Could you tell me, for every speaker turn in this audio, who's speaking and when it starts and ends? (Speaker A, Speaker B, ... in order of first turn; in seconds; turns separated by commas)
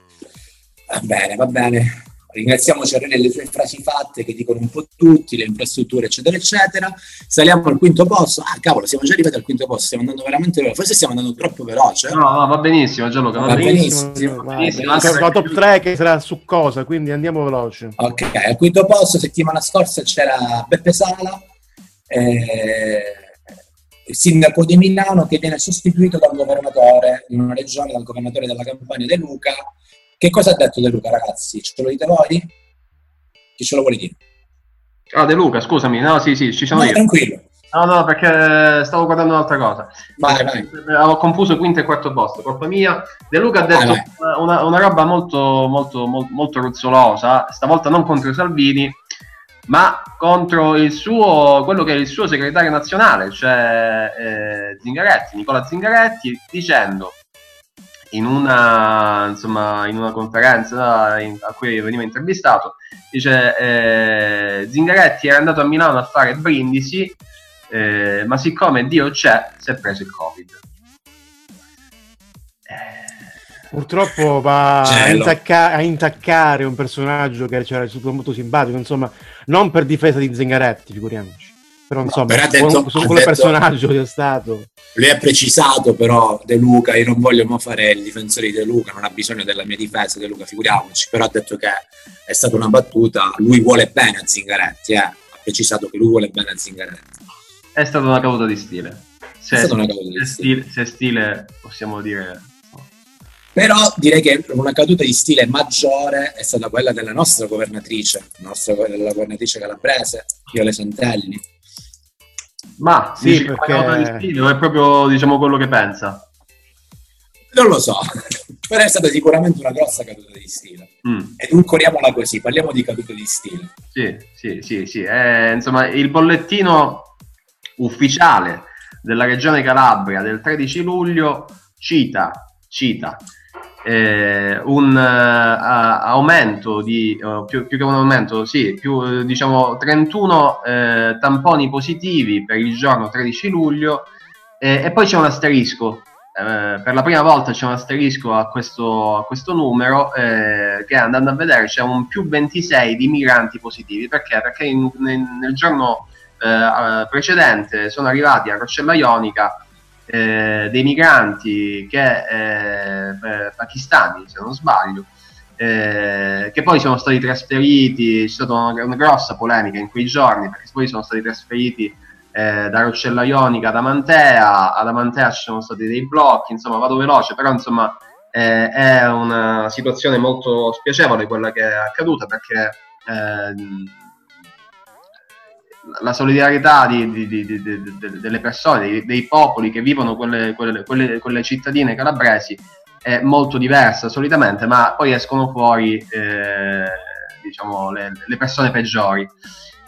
Speaker A: 0.9-12.2, Speaker B: 12.1-15.6, Speaker A: 13.4-15.2, Speaker C: 13.4-18.0, Speaker A: 18.0-21.4, Speaker A: 22.1-23.3, Speaker A: 24.1-29.7, Speaker A: 30.2-32.5, Speaker A: 33.6-34.2, Speaker B: 35.1-37.0, Speaker A: 36.7-37.5, Speaker B: 37.7-49.0, Speaker A: 40.2-40.7, Speaker A: 43.7-44.1, Speaker B: 49.7-57.2, Speaker B: 58.1-67.2, Speaker B: 67.7-70.6, Speaker C: 73.7-84.7, Speaker A: 74.8-75.4, Speaker A: 82.3-83.5, Speaker A: 85.0-97.1, Speaker B: 97.8-102.9, Speaker A: 99.6-100.5, Speaker A: 103.5-111.5, Speaker B: 112.8-116.3, Speaker C: 113.2-114.3, Speaker A: 117.5-123.7, Speaker B: 121.0-121.4, Speaker B: 124.0-127.1, Speaker B: 127.8-133.2, Speaker B: 133.8-144.1, Speaker B: 144.6-184.0, Speaker B: 185.9-199.3